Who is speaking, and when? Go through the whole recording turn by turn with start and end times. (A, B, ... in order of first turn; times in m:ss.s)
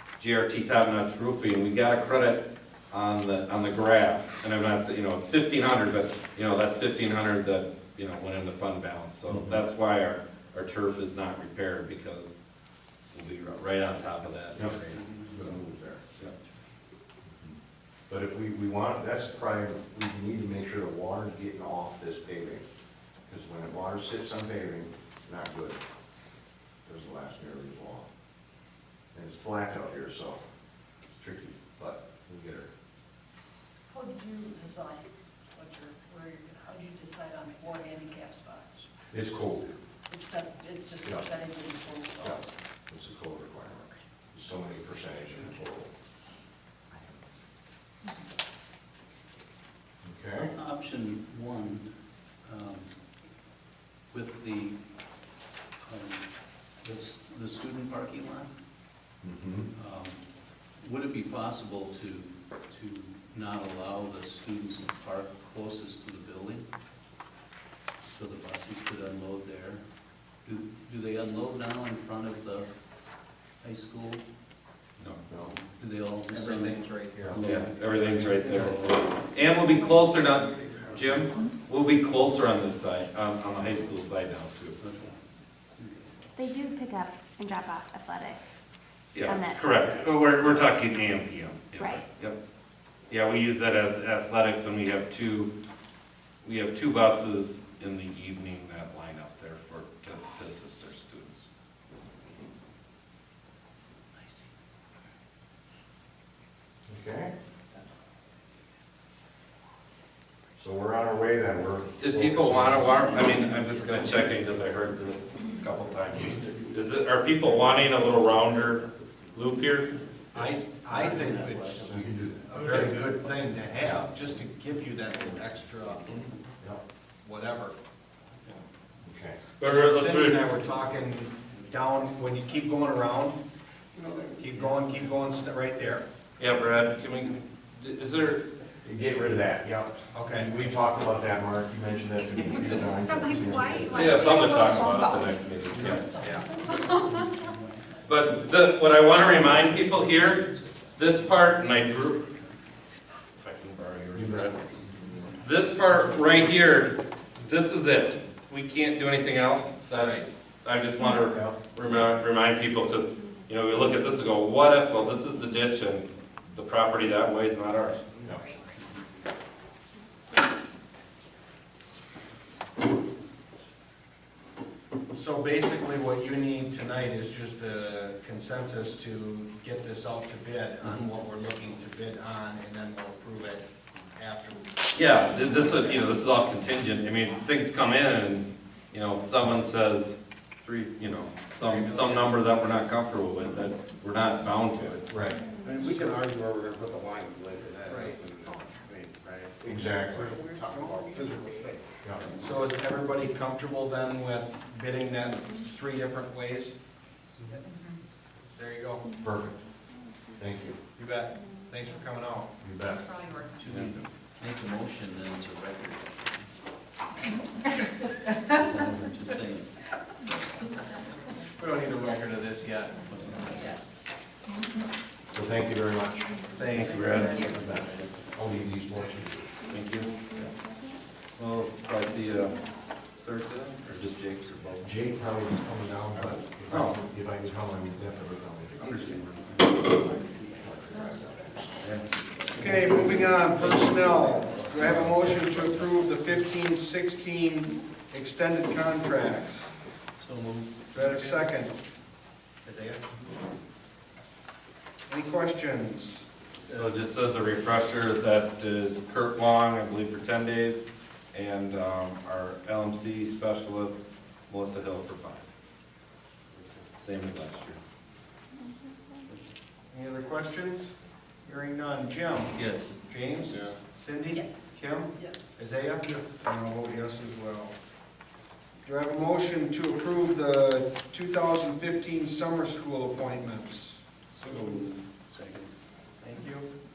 0:00.2-0:12.3 A
0:09.3-0:09.6 B
0:13.1-0:15.0 A
0:14.5-0:16.0 B
0:14.9-0:15.6 C
0:17.2-0:17.6 B
0:18.1-0:22.6 B
0:23.3-0:25.8 B
0:26.8-0:28.1 B
0:29.1-0:30.4 B
0:31.1-0:32.7 B
0:33.9-0:38.9 D
0:39.1-0:39.7 B
0:40.1-0:42.5 D
0:41.0-0:41.3 B
0:42.2-0:45.9 B
0:50.0-0:50.5 B
0:50.5-0:51.9 C
0:52.4-0:52.9 C
0:54.1-0:54.8 C
0:55.8-0:56.2 C
0:56.8-0:58.5 C
0:59.2-0:59.7 B
0:59.7-1:00.2 C
1:00.8-1:06.7 C
1:08.0-1:09.8 C
1:10.4-1:12.7 C
1:13.6-1:14.2 C
1:15.3-1:15.5 B
1:15.5-1:19.0 C
1:16.3-1:17.6 E
1:17.4-1:24.8 A
1:24.8-1:25.2 C
1:25.8-1:26.2 C
1:26.3-1:28.5 F
1:29.1-1:32.4 A
1:29.2-1:30.6 B
1:29.2-1:29.9 F
1:31.8-1:32.0 F
1:33.1-1:35.5 A
1:36.4-1:41.4 A
1:44.1-1:44.5 C
1:46.9-1:47.3 B
1:50.6-1:52.9 B
1:52.0-2:00.0 A
1:52.8-1:54.1 C
1:56.2-1:56.8 G
1:57.4-1:59.4 G
2:00.3-2:06.3 E
2:00.4-2:01.9 C
2:01.0-2:02.0 G
2:01.8-2:02.5 B
2:02.6-2:02.9 A
2:07.2-2:07.7 E
2:09.0-2:09.4 B
2:09.6-2:10.5 A
2:09.6-2:13.4 E
2:13.9-2:16.0 E
2:16.4-2:18.4 A
2:18.8-2:24.4 B
2:20.1-2:20.5 E
2:22.5-2:25.4 D
2:23.6-2:25.3 F
2:23.9-2:26.1 A
2:25.7-2:28.5 C
2:26.0-2:27.2 D
2:26.2-2:26.5 E
2:28.0-2:32.3 A
2:29.2-2:32.6 C
2:33.4-2:34.8 A
2:34.1-2:35.3 B
2:35.4-2:48.0 A
2:35.9-2:36.4 C
2:39.9-2:40.3 E
2:41.0-2:41.2 F
2:43.0-2:44.3 F
2:48.6-2:49.0 C
2:55.1-3:06.3 E
3:04.9-3:15.1 A
3:05.2-3:06.8 F
3:11.6-3:12.4 E
3:15.1-3:15.4 B
3:15.3-3:15.8 F
3:15.6-3:22.6 G
3:15.8-3:16.1 E
3:17.8-3:18.2 E
3:18.4-3:18.7 D
3:19.6-3:20.3 B
3:20.1-3:21.8 E
3:22.0-3:22.3 B
3:22.3-3:26.7 E
3:25.3-3:25.6 F
3:27.4-3:27.6 C
3:27.6-3:28.0 D
3:28.5-3:29.1 E
3:29.2-3:29.6 B
3:29.9-3:30.4 F
3:30.4-3:30.8 B
3:30.9-3:32.5 E
3:31.3-3:31.7 F
3:32.6-3:33.2 B
3:32.8-3:33.9 D
3:33.6-3:36.5 C
3:38.5-3:39.7 C
3:40.3-3:41.5 D
3:41.6-3:43.0 E
3:43.0-3:43.8 C
3:43.5-3:43.8 D
3:45.3-3:49.5 B
3:46.5-3:47.6 E
3:46.7-3:47.5 A
3:46.8-3:48.1 D
3:49.6-3:51.0 F
3:49.7-3:50.1 A
3:51.4-3:54.9 A
3:52.0-3:52.8 F
3:54.8-4:01.8 B
3:56.0-3:56.4 E
3:56.7-3:57.0 A
3:58.8-4:00.0 A
4:02.5-4:09.7 E
4:02.5-4:06.4 C
4:10.2-4:11.4 C
4:10.9-4:11.7 E
4:12.6-4:13.0 E
4:15.1-4:16.2 E
4:16.7-4:25.4 A
4:27.0-4:27.8 A
4:29.9-4:30.9 E
4:31.4-4:37.7 E
4:32.5-4:32.9 C
4:33.5-4:33.8 G
4:34.3-4:34.6 D
4:35.2-4:35.5 D
4:38.8-4:44.8 E
4:44.3-4:45.7 C
4:46.2-4:46.7 E